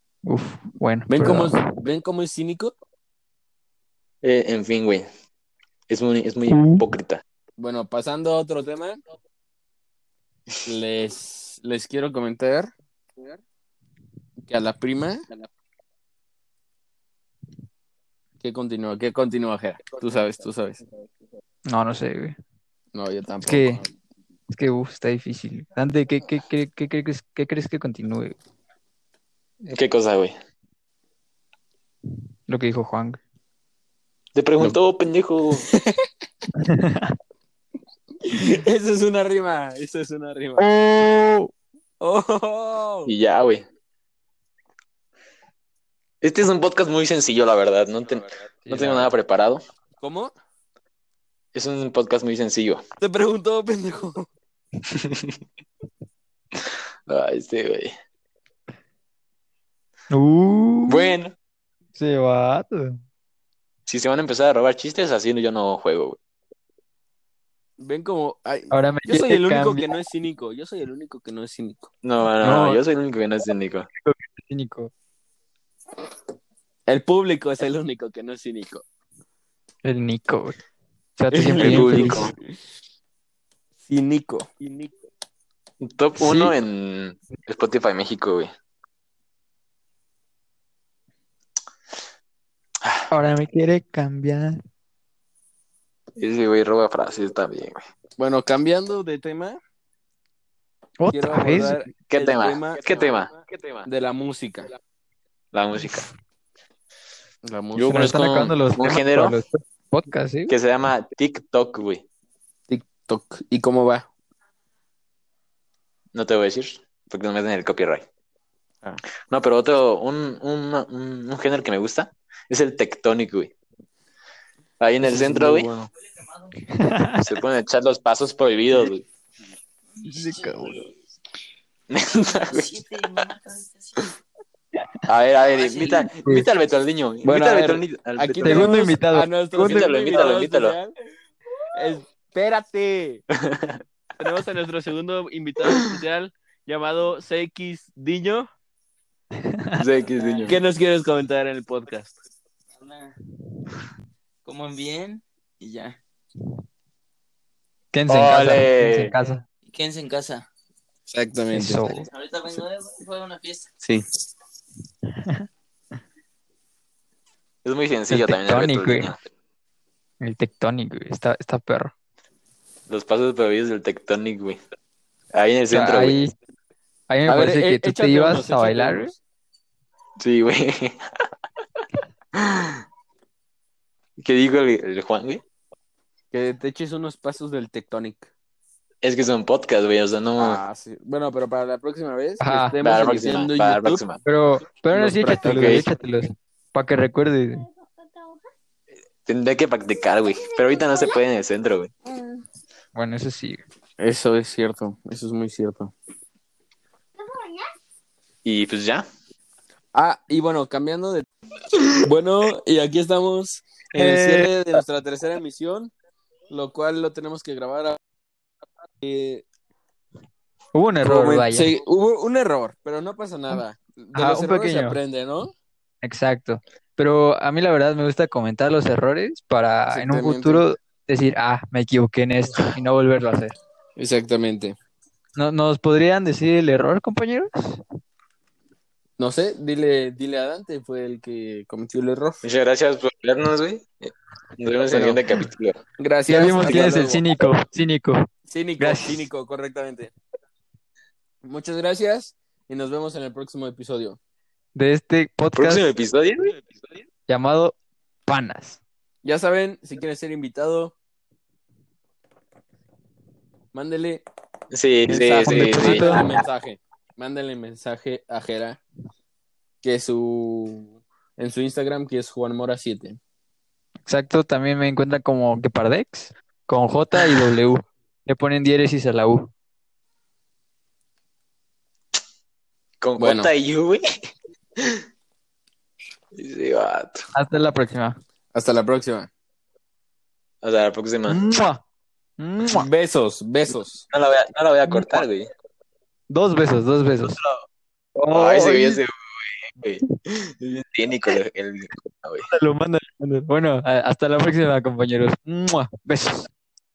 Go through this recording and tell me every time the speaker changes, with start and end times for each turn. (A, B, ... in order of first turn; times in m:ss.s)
0:00.2-0:01.7 A
0:01.1-0:02.7 B
0:04.2-0:05.1 C
0:05.9-0:07.2 C
0:06.5-0:06.8 A
0:07.6-0:09.0 B
0:10.6-0:12.7 B
0:14.4-0:15.2 B
0:18.4-0:20.8 B
0:21.7-0:22.4 A
0:22.9-0:23.9 B
0:23.4-0:23.8 A
0:24.5-0:28.4 A
0:29.6-0:30.4 C
0:32.5-0:33.2 A
0:34.3-0:35.7 C
0:35.7-0:36.0 B
0:36.6-0:37.1 A
0:38.3-0:40.7 B
0:40.6-0:41.5 A
0:42.0-0:43.1 B
0:43.1-0:43.6 C
0:46.2-0:49.6 C
0:48.6-0:49.1 A
0:50.0-0:50.3 B
0:51.5-0:52.8 C
0:53.0-0:54.3 B
0:54.9-0:55.4 C
0:56.7-0:57.9 C
1:00.1-1:01.2 A
1:00.9-1:01.4 C
1:02.0-1:03.0 A
1:03.9-1:06.2 C
1:07.8-1:11.9 B
1:08.7-1:09.9 A
1:12.0-1:13.9 C
1:12.4-1:12.8 A
1:14.0-1:14.9 A
1:16.9-1:18.8 B
1:19.8-1:20.6 A
1:21.2-1:22.3 A
1:21.3-1:22.4 B
1:21.6-1:22.3 C
1:23.8-1:24.9 B
1:25.8-1:28.5 C
1:26.2-1:26.6 A
1:33.1-1:34.6 A
1:36.2-1:37.8 C
1:38.2-1:39.6 B
1:41.0-1:41.8 A
1:41.1-1:43.0 B
1:42.1-1:43.9 C
1:43.9-1:44.7 B
1:45.5-1:46.1 C
1:45.8-1:46.1 A
1:47.4-1:48.0 B
1:47.8-1:49.4 C
1:47.9-1:50.6 A
1:50.5-1:52.0 C
1:52.7-1:54.1 B
1:56.1-1:58.1 C
1:59.3-2:03.5 C
2:04.8-2:05.7 C
2:05.0-2:05.9 B
2:06.7-2:07.3 A
2:07.2-2:09.0 C
2:10.0-2:10.9 D
2:10.1-2:10.8 A
2:11.9-2:12.8 C
2:12.5-2:14.1 D
2:15.1-2:18.8 C
2:15.6-2:16.1 D
2:16.1-2:16.5 A
2:17.2-2:20.9 B
2:18.4-2:19.9 A
2:19.6-2:20.8 C
2:21.7-2:23.2 B
2:23.3-2:23.8 C
2:24.2-2:28.5 B
2:29.4-2:29.8 A
2:29.8-2:30.6 C
2:30.1-2:30.6 D
2:30.5-2:32.1 B
2:32.8-2:33.1 D
2:34.4-2:36.0 D
2:37.9-2:39.4 A
2:38.1-2:39.1 C
2:39.7-2:40.4 D
2:41.1-2:41.8 B
2:41.5-2:42.1 A
2:41.9-2:43.7 D
2:47.6-2:49.2 C
2:48.1-2:49.1 A
2:50.2-2:51.9 A
2:52.9-2:54.6 C
2:55.3-2:56.2 C
2:55.7-2:56.3 A
2:57.1-2:59.1 A
2:57.3-2:59.2 B
3:00.2-3:01.1 C
3:02.3-3:02.8 C
3:04.2-3:05.4 C
3:06.3-3:08.3 B
3:09.0-3:10.6 C
3:10.4-3:14.0 B
3:12.4-3:12.8 A
3:12.8-3:14.2 C
3:14.2-3:17.6 A
3:14.9-3:15.8 B
3:15.5-3:15.8 C
3:17.6-3:18.5 E
3:19.3-3:21.9 C
3:20.2-3:21.2 E
3:22.0-3:22.4 E
3:23.0-3:23.6 A
3:24.0-3:25.9 B
3:27.2-3:27.7 E
3:28.4-3:29.1 C
3:30.0-3:31.3 B
3:32.0-3:35.9 B
3:34.0-3:34.5 A
3:36.5-3:38.0 B
3:39.0-3:39.5 B
3:40.8-3:41.7 A
3:41.0-3:45.5 B
3:44.2-3:45.0 A
3:46.0-3:53.6 A
3:49.9-3:50.6 B
3:54.0-3:54.8 B
3:55.4-3:57.8 A
3:59.2-4:02.4 B
4:02.4-4:05.8 C
4:04.9-4:05.2 B
4:06.0-4:07.3 B
4:06.3-4:08.3 A
4:08.5-4:10.1 B
4:08.8-4:09.2 A
4:11.4-4:14.2 B
4:14.8-4:15.9 A
4:15.6-4:16.6 C
4:17.3-4:17.8 A
4:18.3-4:18.8 A
4:19.2-4:21.0 B
4:23.7-4:24.2 B
4:24.7-4:26.4 C
4:25.1-4:28.8 B
4:25.4-4:26.4 A
4:29.8-4:33.2 B
4:34.1-4:39.5 A
4:43.0-4:44.0 C
4:43.2-4:43.5 B
4:44.8-4:45.0 C
4:46.3-4:47.2 C
4:47.3-4:48.2 A
4:48.5-4:49.3 B
4:50.6-4:51.4 C
4:51.3-4:51.8 A
4:52.4-4:52.9 A
4:52.7-4:54.0 B
4:54.1-4:55.5 C
4:54.9-4:55.2 A
4:56.3-4:57.4 A
4:57.2-4:57.7 C
4:58.2-4:59.0 A
4:58.3-5:02.5 C
5:02.4-5:06.5 A